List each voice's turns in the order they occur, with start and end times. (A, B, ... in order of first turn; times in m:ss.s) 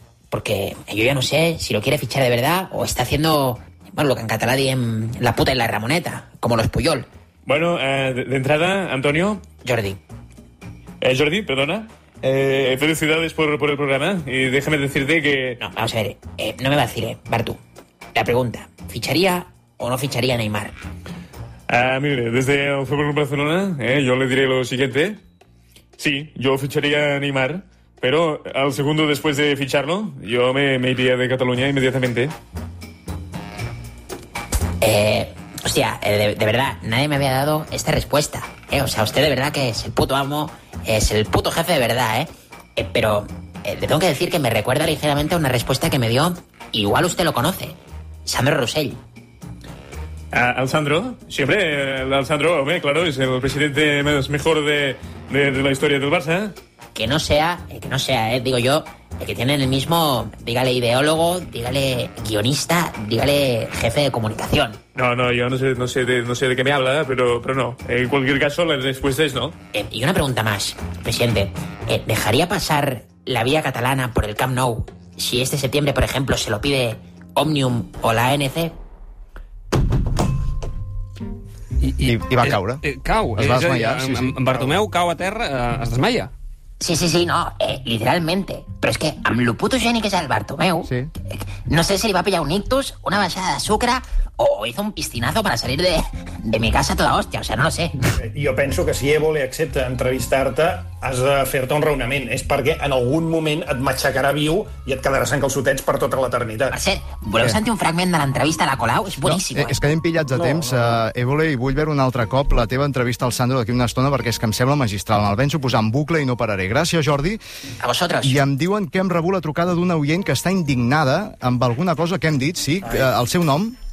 0:00.3-0:07.1 A
0:07.5-0:09.5 B
0:09.6-0:10.0 A
0:11.0-0:15.6 B
0:15.6-0:17.6 A
0:18.2-0:20.8 A
0:21.7-0:25.2 B
0:26.0-0:32.3 B
0:34.8-0:47.8 A
0:48.2-0:49.0 A
0:50.3-0:56.6 B
0:57.0-1:04.8 A
1:05.0-1:09.6 B
1:09.7-1:18.7 A
1:21.8-1:26.3 C
1:22.0-1:22.8 D
1:23.4-1:24.4 D
1:26.8-1:38.0 A
1:30.8-1:31.1 D
1:38.2-1:46.8 E
1:46.7-1:49.8 A
1:49.2-1:57.4 D
1:57.8-1:58.4 A
1:58.2-2:03.8 D